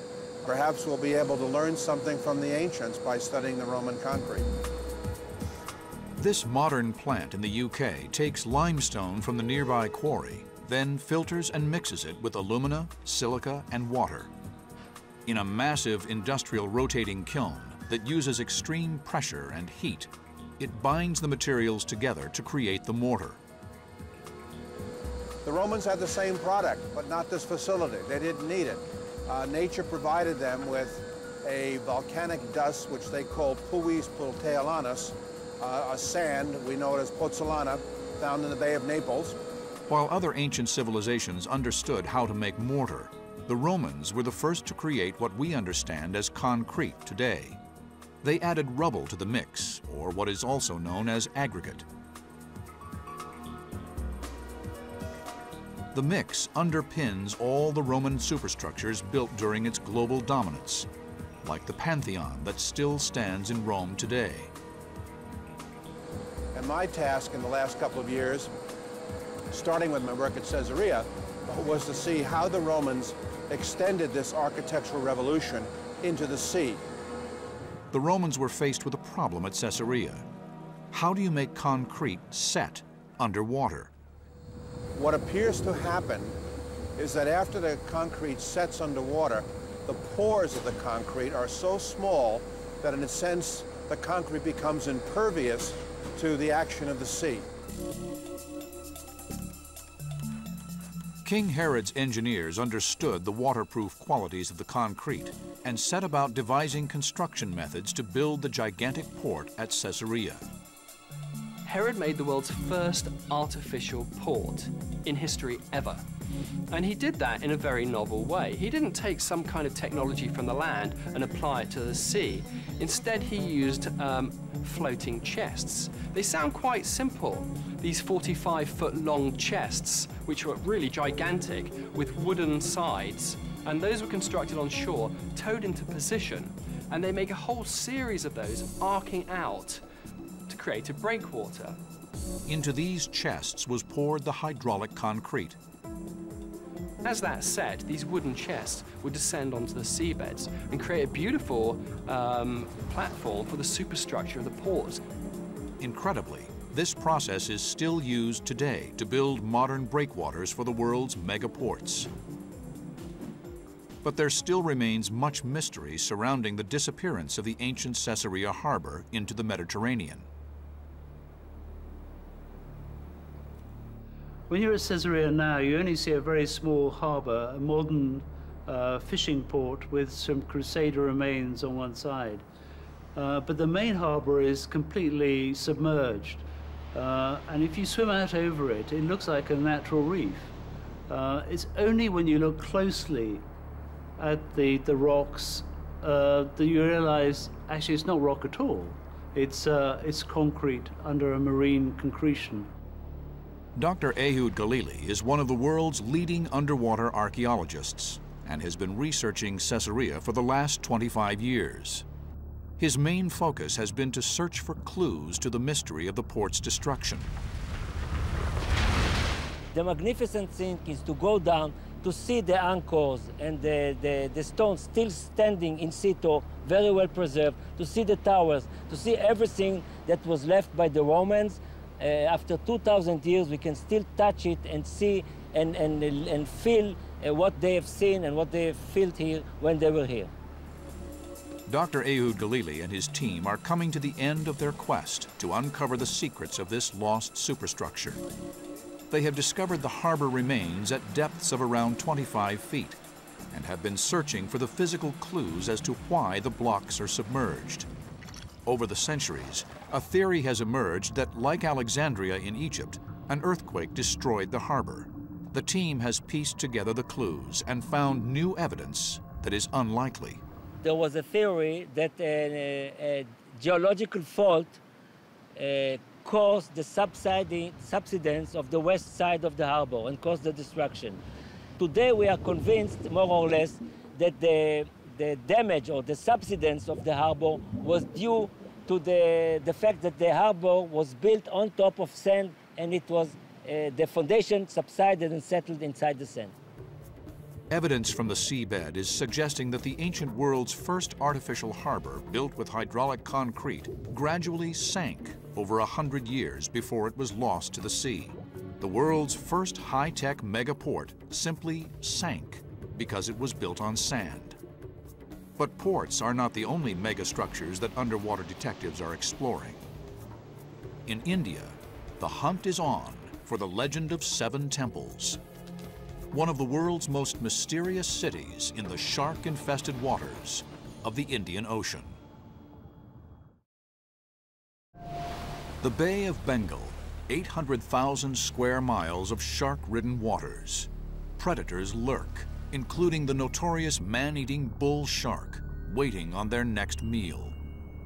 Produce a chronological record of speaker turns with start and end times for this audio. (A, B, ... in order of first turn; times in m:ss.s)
0:00.5-0:04.5 A
0:06.2-0:14.3 B
0:15.3-0:23.4 B
0:25.5-0:39.4 A
0:39.9-0:47.6 B
0:48.2-0:51.9 B
0:55.9-1:00.9 B
1:01.4-1:04.5 B
1:06.6-1:08.5 A
1:09.5-1:16.8 A
1:17.9-1:20.3 B
1:20.9-1:23.9 B
1:25.0-1:26.4 A
1:27.0-1:37.5 A
1:41.2-1:50.4 B
1:51.7-1:56.0 C
1:56.7-2:19.8 C
2:20.5-2:21.8 C
2:22.5-2:25.6 B
2:27.0-2:35.0 C
2:35.8-2:42.1 B
2:44.0-2:50.3 B
2:54.5-3:02.4 D
3:03.2-3:06.4 D
3:06.9-3:10.5 D
3:11.1-3:13.4 D
3:14.2-3:22.7 D
3:23.8-3:32.0 B
3:32.8-3:37.3 B
3:39.7-4:00.3 E
4:01.7-4:08.2 B
4:09.1-4:13.0 B
4:13.5-4:17.9 B
4:18.7-4:30.4 B
4:30.8-4:34.8 E
4:35.6-4:41.2 E
4:41.8-4:56.6 E
4:57.7-5:14.6 B
5:15.6-5:19.9 B
5:21.1-5:25.4 B
5:26.3-5:32.2 B
5:35.8-5:47.6 B